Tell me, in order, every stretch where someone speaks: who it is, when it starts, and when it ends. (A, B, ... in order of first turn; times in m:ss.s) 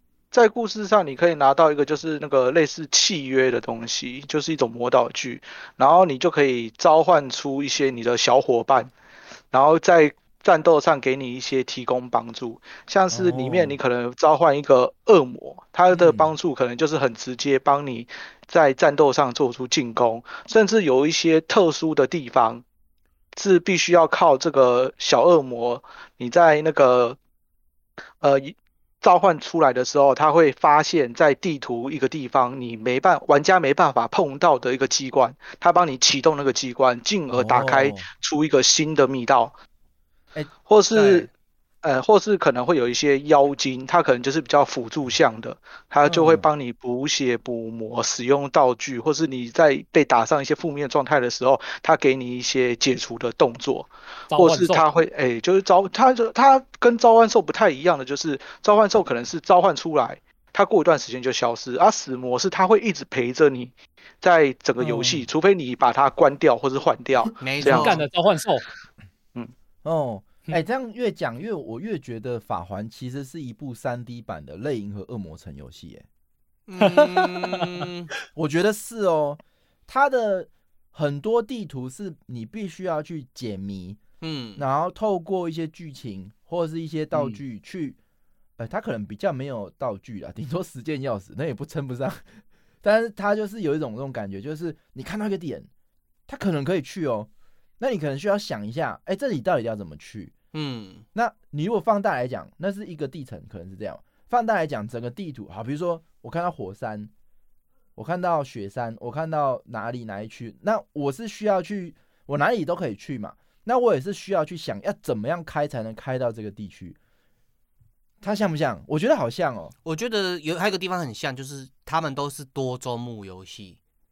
0:00.3-0:08.9 A
0:09.5-0:22.6 A
0:13.1-0:13.8 B
0:15.9-0:16.3 B
0:23.3-0:27.2 A
0:28.2-0:39.5 A
0:37.3-0:38.1 B
0:40.7-0:41.3 A
0:40.9-0:41.3 C
0:41.8-1:08.0 A
0:46.0-0:46.5 B
0:54.3-0:54.9 D
1:04.8-1:05.2 B
1:07.4-1:08.0 C
1:07.6-1:08.7 D
1:09.8-1:16.0 B
1:16.7-1:18.1 C
1:16.8-1:17.8 D
1:18.3-1:24.0 B
1:24.2-1:24.6 C
1:24.6-1:28.0 B
1:27.1-1:27.4 D
1:28.6-1:35.7 B
1:36.3-1:40.3 B
1:40.5-1:41.0 C
1:41.1-1:47.1 B
1:48.0-1:57.0 B
1:58.2-1:59.7 B
1:59.8-2:03.8 C